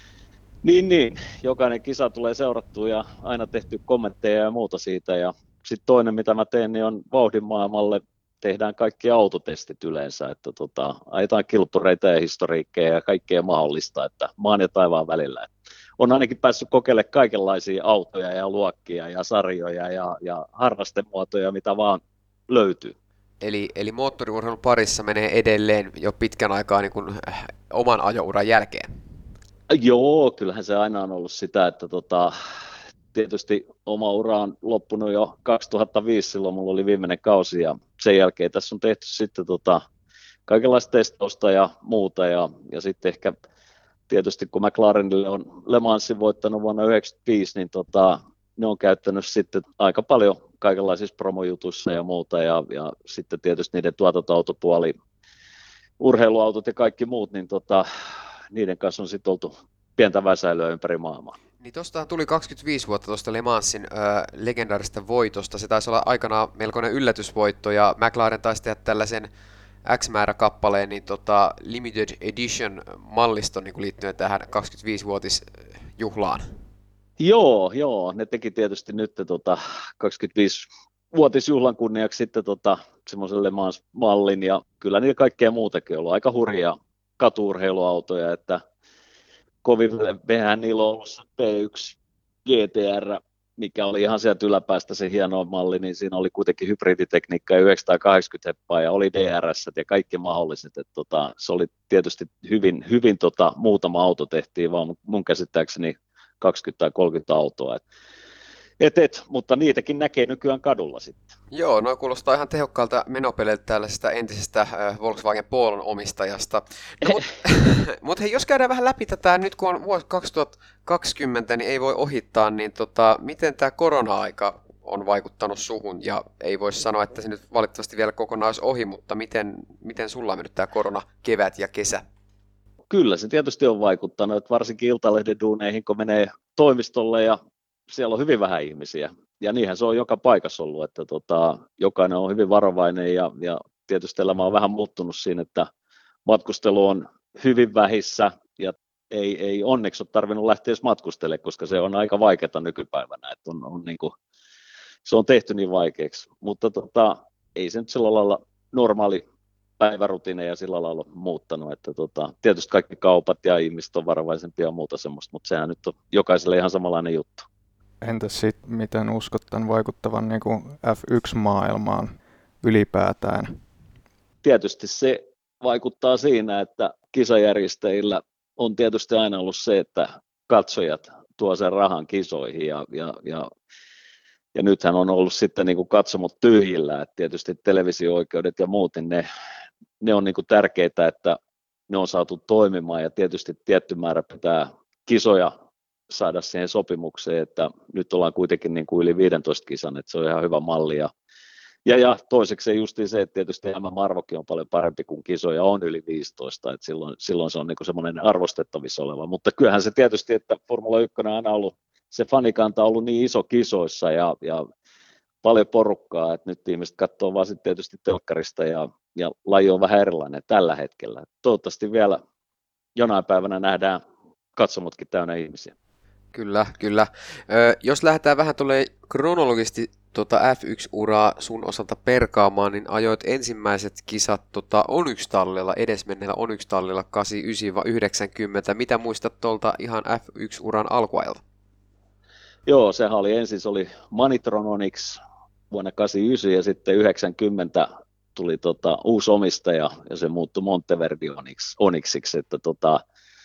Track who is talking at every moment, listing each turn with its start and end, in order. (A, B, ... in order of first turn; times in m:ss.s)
0:00.6-0:23.0 A
0:23.4-0:28.9 B
0:29.7-0:32.3 A
0:33.1-0:39.8 A
0:40.5-0:43.4 A
0:44.1-0:55.0 A
0:56.0-0:57.9 A
0:58.5-1:01.3 A
1:01.6-1:09.3 B
1:09.8-1:16.5 B
1:17.2-1:28.6 A
1:29.6-1:47.8 A
1:48.8-1:51.3 A
1:51.5-2:12.0 B
2:12.9-2:17.4 A
2:17.9-2:25.7 A
2:26.3-2:34.1 A
2:35.1-2:39.2 A
2:39.8-2:47.5 A
2:48.0-2:53.6 C
2:54.4-3:03.5 A
3:04.6-3:09.2 A
3:10.0-3:11.4 A
3:11.9-3:15.5 A
3:16.1-3:21.1 A
3:21.8-3:34.7 A
3:35.4-3:42.2 A
3:43.0-3:44.0 A
3:44.6-3:45.7 A
3:46.3-4:01.4 B
4:02.7-4:05.2 A
4:05.7-4:13.0 A